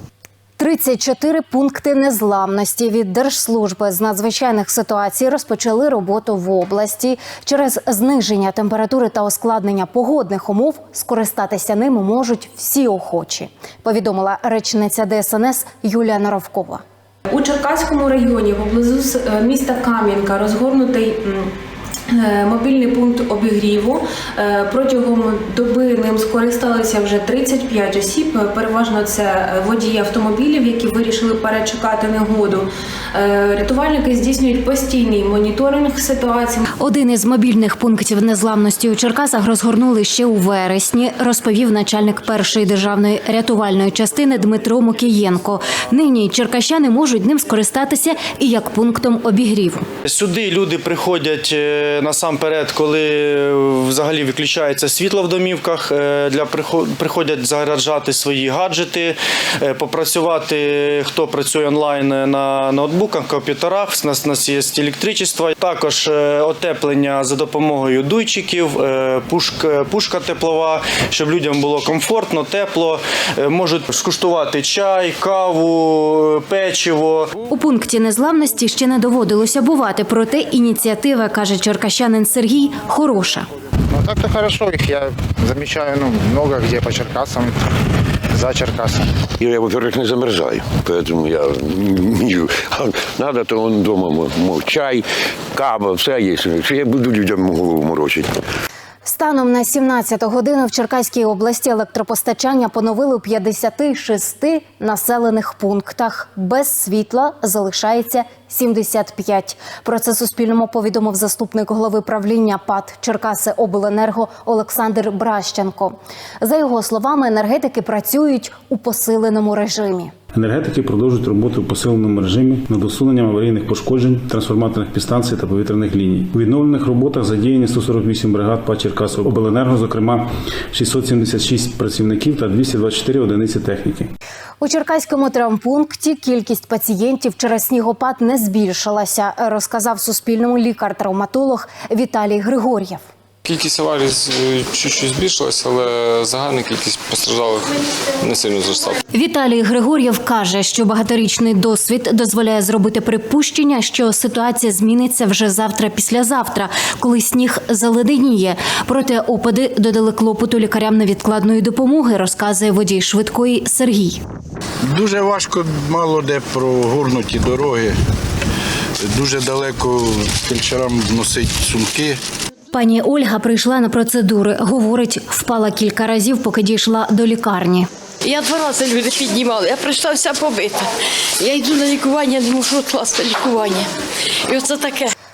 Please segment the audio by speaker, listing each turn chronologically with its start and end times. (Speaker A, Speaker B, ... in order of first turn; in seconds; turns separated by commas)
Speaker A: 0.6-16.8, Speaker B: 17.3-21.5, Speaker B: 22.1-36.6, Speaker A: 36.8-49.9, Speaker C: 50.0-77.4, Speaker A: 77.5-83.5, Speaker D: 84.0-87.5, Speaker D: 88.4-89.0, Speaker E: 89.4-98.3, Speaker A: 99.0-120.1, Speaker F: 120.3-134.1, Speaker A: 134.6-143.0, Speaker G: 143.5-144.3, Speaker G: 144.8-147.5, Speaker A: 149.1-164.2, Speaker H: 164.9-167.9, Speaker H: 169.1-172.2, Speaker A: 172.7-177.9, Speaker I: 178.2-180.8, Speaker I: 181.4-183.8, Speaker I: 184.5-185.0